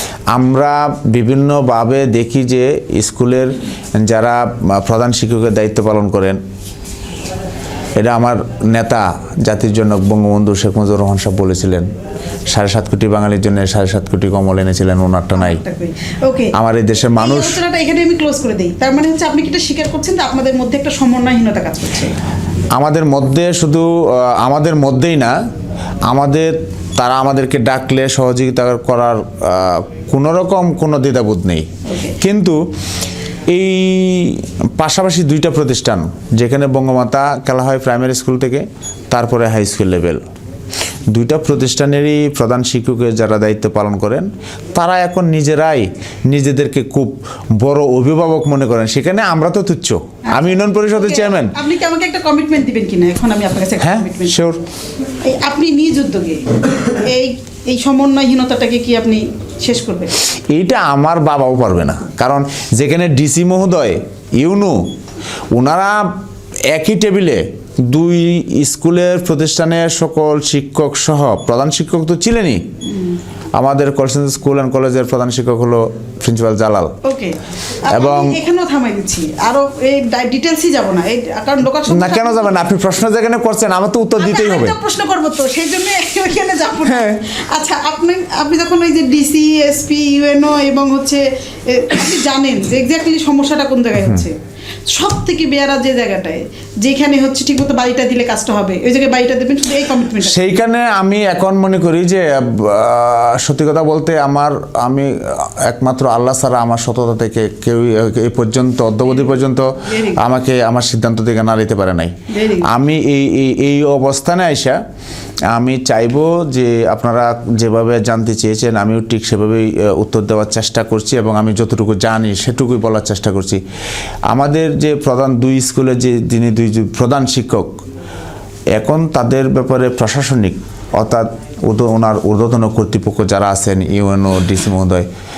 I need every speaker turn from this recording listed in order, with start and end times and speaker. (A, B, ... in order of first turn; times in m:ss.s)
0:00.3-0:06.4 A
0:08.0-0:11.9 A
0:12.5-0:15.6 A
0:15.4-0:16.5 B
0:16.5-0:17.6 A
0:17.1-0:22.2 B
0:22.7-0:25.3 A
0:26.1-0:31.7 A
0:31.9-0:32.2 B
0:32.2-0:32.6 A
0:33.5-0:40.2 A
0:41.1-0:51.5 A
0:50.3-0:54.4 B
0:53.8-0:54.6 A
0:55.2-1:00.1 B
1:00.5-1:04.9 A
1:05.5-1:12.6 A
1:13.5-1:16.9 A
1:17.0-1:22.6 B
1:17.9-1:18.4 A
1:21.9-1:24.8 A
1:24.2-1:34.3 B
1:26.8-1:27.2 A
1:34.9-1:40.4 B
1:40.2-1:54.8 A
1:49.9-1:50.2 B
1:52.3-1:52.7 B
1:55.5-2:03.6 A
2:04.3-2:07.8 A
2:08.7-2:15.1 A